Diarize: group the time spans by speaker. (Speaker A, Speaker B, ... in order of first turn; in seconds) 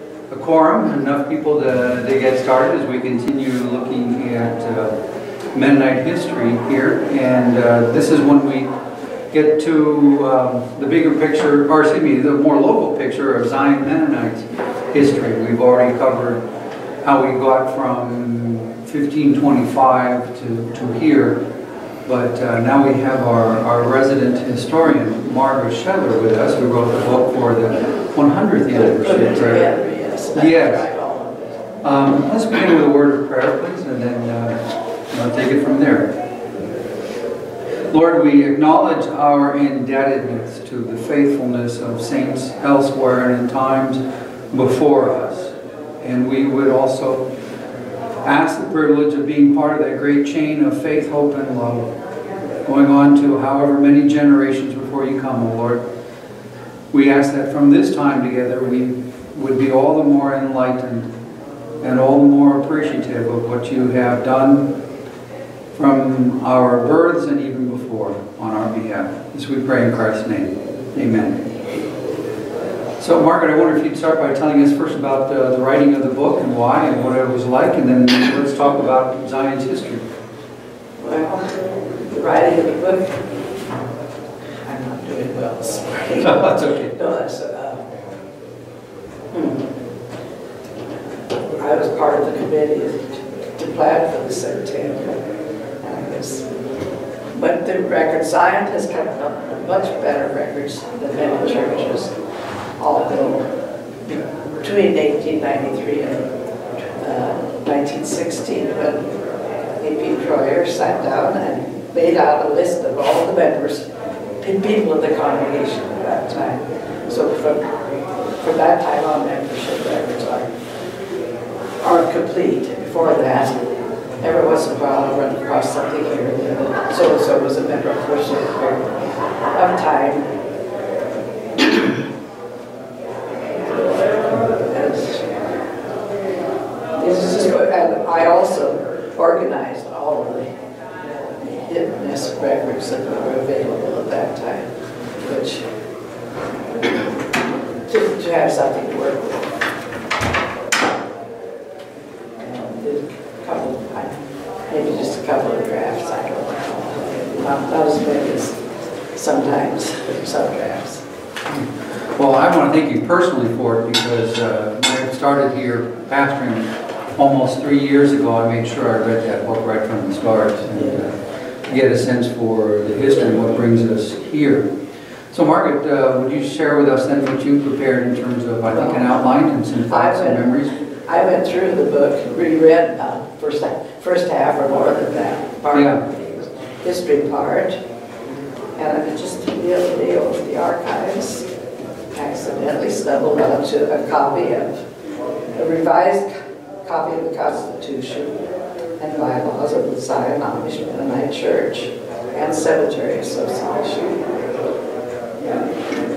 Speaker A: 0.3-4.9, 5.5-8.7, 9.3-16.4, 17.0-21.4, 22.1-29.7, 30.3-30.8, 31.8-34.6, 35.1-36.1, 37.9-44.0, 44.5-47.2, 48.2-51.9, 52.6-55.8, 56.9-61.1, 61.8-64.7, 65.8-71.4, 73.0-80.0, 86.1-86.9, 161.5-174.7, 175.3-180.7, 185.7-186.0
Speaker B: 28.7-31.3, 81.0-81.6, 82.1-83.2, 84.6-87.9, 89.3-89.7, 91.6-95.2, 95.8-96.5, 97.3-102.1, 102.8-106.3, 107.0-109.1, 109.8-113.9, 114.4-117.7, 118.4-120.5, 121.8-123.6, 124.2-130.3, 134.3-135.2, 136.9-140.5, 141.4-145.7, 147.9-149.6, 152.3-154.1, 154.7-158.6, 159.1-161.0, 170.7-171.0, 178.7-179.1, 179.9-180.4, 181.1-187.8, 188.8-191.5, 192.1-194.8, 195.5-196.3, 196.8-198.4, 199.0-204.3, 205.4-205.7